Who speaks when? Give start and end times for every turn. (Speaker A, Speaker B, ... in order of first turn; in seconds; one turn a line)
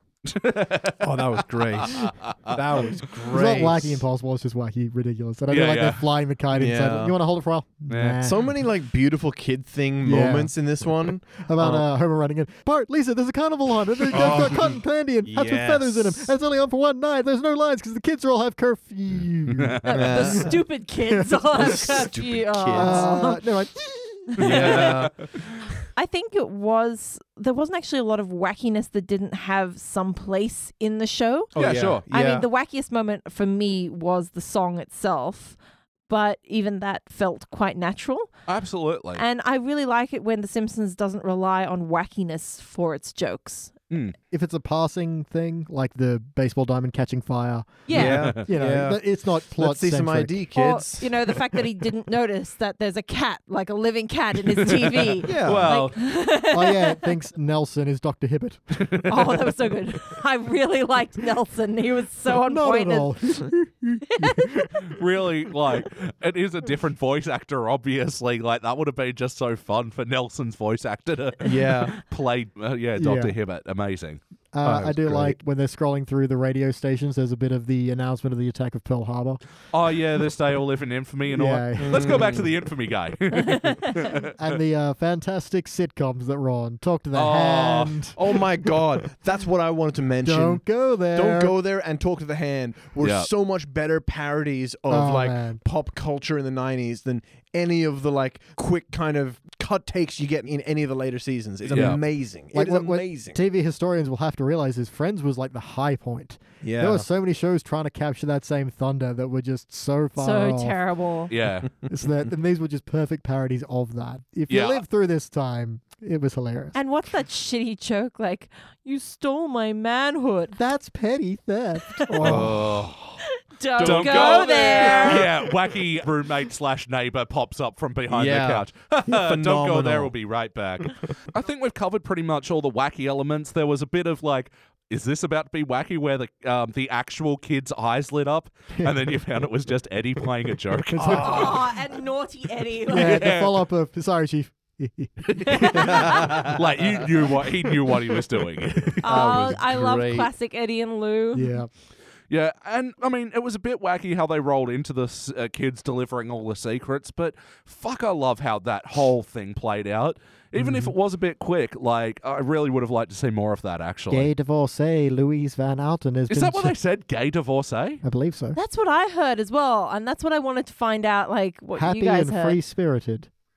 Speaker A: 0.3-2.6
Speaker B: 1.0-4.0
Speaker C: 3.3-8.5
Speaker A: 5.5-6.1
Speaker B: 6.5-7.1
Speaker A: 7.9-8.3
Speaker B: 8.2-11.9
Speaker C: 10.0-10.5
Speaker C: 11.1-20.5
Speaker B: 14.1-14.7
Speaker B: 15.2-16.3
Speaker A: 19.5-19.9
Speaker D: 19.8-23.4
Speaker B: 19.9-20.6
Speaker C: 21.1-22.0
Speaker B: 21.6-23.1
Speaker C: 22.8-24.7
Speaker D: 24.4-24.8
Speaker B: 24.4-25.1
Speaker A: 24.4-25.3
Speaker D: 26.0-35.6
Speaker A: 31.6-32.0
Speaker B: 31.6-32.5
Speaker D: 36.1-38.3
Speaker A: 38.5-39.2
Speaker D: 39.2-43.7
Speaker C: 44.3-50.3
Speaker D: 47.9-48.2
Speaker B: 47.9-49.0
Speaker A: 47.9-48.5
Speaker B: 49.5-51.1
Speaker D: 50.5-57.1
Speaker A: 54.6-56.0
Speaker B: 55.2-55.8
Speaker C: 56.5-58.9
Speaker A: 58.8-59.3
Speaker D: 59.1-63.1
Speaker C: 62.5-64.8
Speaker D: 64.1-64.7
Speaker A: 64.8-74.2
Speaker B: 71.4-72.0
Speaker C: 73.0-73.3
Speaker C: 74.5-79.4
Speaker B: 74.6-75.4
Speaker A: 79.7-84.3
Speaker C: 81.3-82.3
Speaker B: 81.8-82.5
Speaker C: 84.1-88.9
Speaker A: 87.1-88.1
Speaker B: 88.2-103.4
Speaker C: 90.2-91.5
Speaker A: 93.0-93.3
Speaker C: 94.9-95.6
Speaker A: 101.7-102.0
Speaker C: 102.5-110.8
Speaker B: 106.6-107.1
Speaker D: 110.2-111.3
Speaker A: 111.3-111.7
Speaker C: 111.9-116.8
Speaker A: 114.5-114.8
Speaker D: 116.8-120.6
Speaker C: 120.5-122.6
Speaker B: 122.1-123.2
Speaker A: 122.2-122.9
Speaker D: 123.5-125.3
Speaker B: 123.8-125.5
Speaker A: 123.8-141.5
Speaker B: 128.1-130.1
Speaker C: 140.9-141.3
Speaker B: 141.0-141.7
Speaker D: 141.0-143.3
Speaker C: 142.9-146.2
Speaker A: 142.9-143.6
Speaker A: 145.3-149.4
Speaker D: 145.4-146.3
Speaker B: 146.0-146.6
Speaker D: 149.0-151.6
Speaker B: 149.1-150.3
Speaker C: 151.3-151.7
Speaker A: 152.3-164.3
Speaker C: 160.6-160.9
Speaker C: 164.1-166.8
Speaker A: 166.3-168.0
Speaker C: 168.0-168.6
Speaker D: 168.6-172.6
Speaker C: 171.8-173.3